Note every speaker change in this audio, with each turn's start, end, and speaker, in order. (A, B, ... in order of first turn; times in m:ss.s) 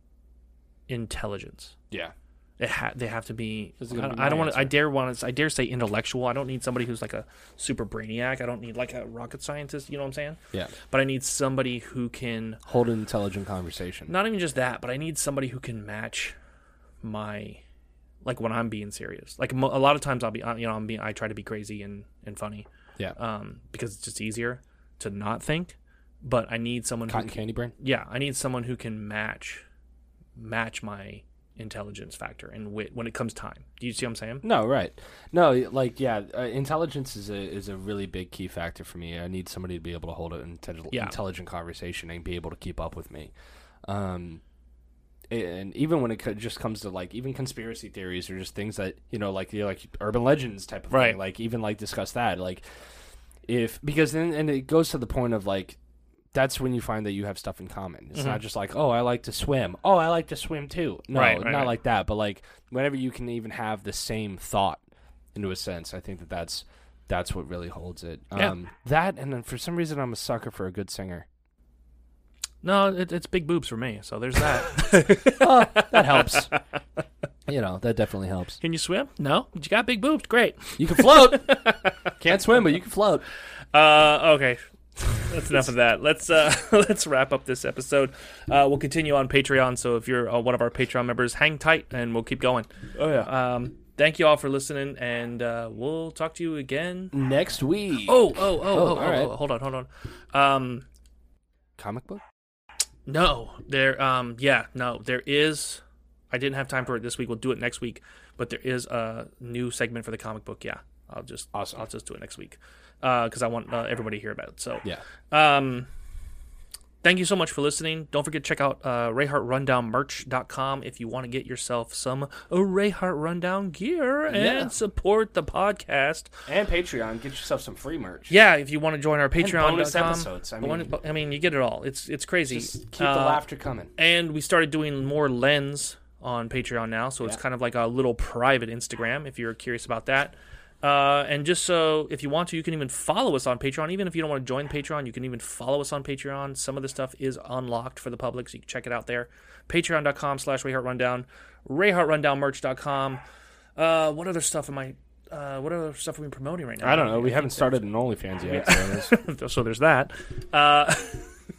0:00.9-0:01.7 A
0:02.6-0:12.6 A
0:03.8-0:04.7 B
0:12.6-0:14.1 B
0:14.1-0:16.4 A
0:17.0-0:17.6 A
0:18.2-0:29.6 A
0:27.1-0:27.7 B
0:30.4-0:34.4 A
0:34.4-0:43.3 B
0:43.8-0:44.4 B
0:45.3-0:52.6 B
0:50.9-0:51.2 A
0:53.5-0:55.8 B
0:56.3-1:04.8 B
0:58.1-0:58.4 A
1:01.1-1:01.8 A
1:05.3-1:11.3 B
1:12.6-1:16.6 A
1:15.3-1:16.5 B
1:17.5-1:18.6 B
1:18.6-1:22.1 A
1:20.8-1:21.6 B
1:22.2-1:23.2 B
1:23.7-1:24.6 A
1:25.1-1:37.1 A
1:33.0-1:33.3 B
1:37.1-1:39.3 B
1:38.0-1:40.8 A
1:41.8-1:42.2 B
1:43.0-1:55.9 A
1:51.5-1:51.8 B
1:57.0-2:06.3 A
2:04.3-2:04.7 B
2:06.4-2:08.3 B
2:08.3-2:13.4 A
2:09.4-2:10.9 B
2:12.5-2:13.9 B
2:14.0-2:33.2 A
2:33.8-2:37.8 A
2:36.8-2:39.1 B
2:38.4-2:41.3 A